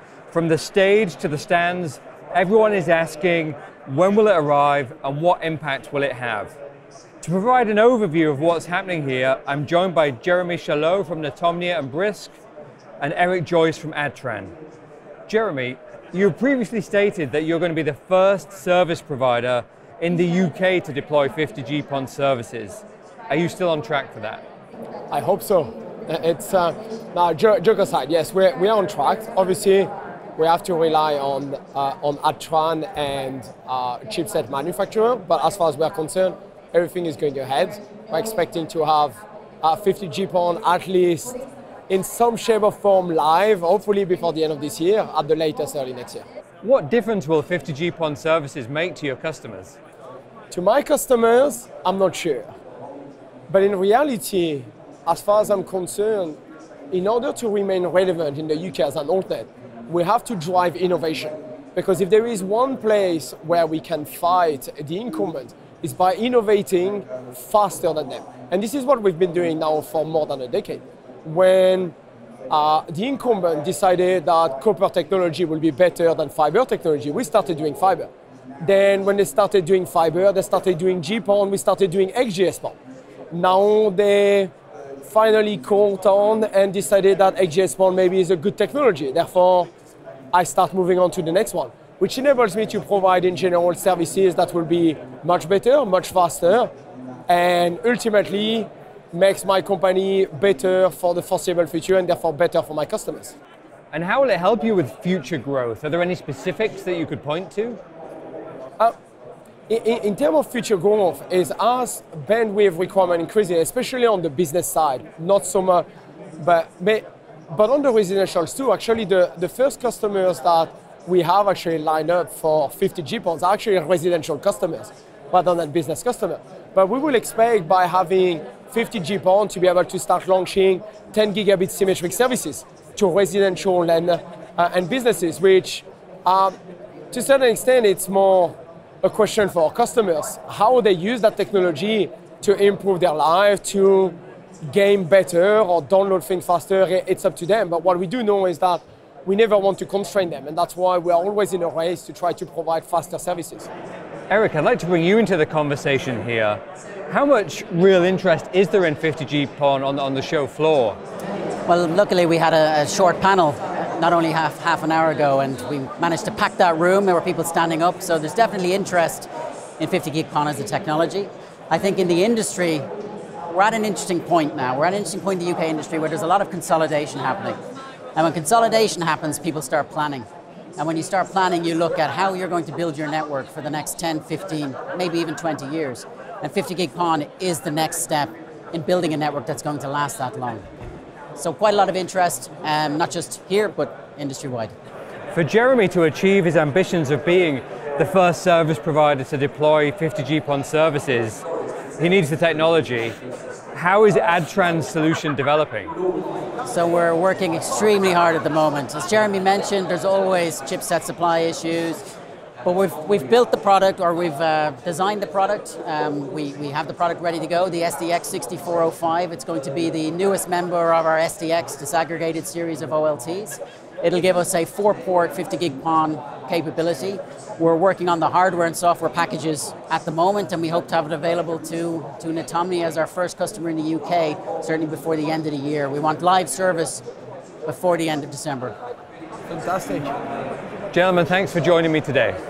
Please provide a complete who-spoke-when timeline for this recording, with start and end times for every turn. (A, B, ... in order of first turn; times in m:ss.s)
0:00.3-0:06.5 A
0:07.2-0:12.4 A
0:13.0-0:14.5 A
0:15.3-0:24.4 A
0:25.1-0:41.4 B
0:41.9-0:46.2 B
0:46.6-0:49.8 A
0:50.5-0:52.5 B
0:53.5-0:56.4 B
0:56.9-1:11.9 B
1:12.5-1:18.1 B
1:18.6-1:22.8 B
1:23.3-1:24.5 B
1:25.0-1:29.7 B
1:30.3-1:36.7 B
1:37.3-1:43.3 B
1:43.9-1:47.8 A
1:49.7-1:55.8 B
1:56.4-2:16.6 B
2:17.1-2:33.7 B
2:34.3-2:41.0 A
2:41.7-2:52.8 C
2:53.5-2:57.6 C
2:58.1-3:10.6 C
3:11.4-3:14.7 C
3:15.3-3:21.4 A
3:22.0-3:23.2 A
3:23.7-3:25.9 A
3:26.6-3:32.1 C
3:32.6-3:57.0 C
3:57.6-3:58.7 C
3:59.5-4:00.1 B
4:00.9-4:02.4 A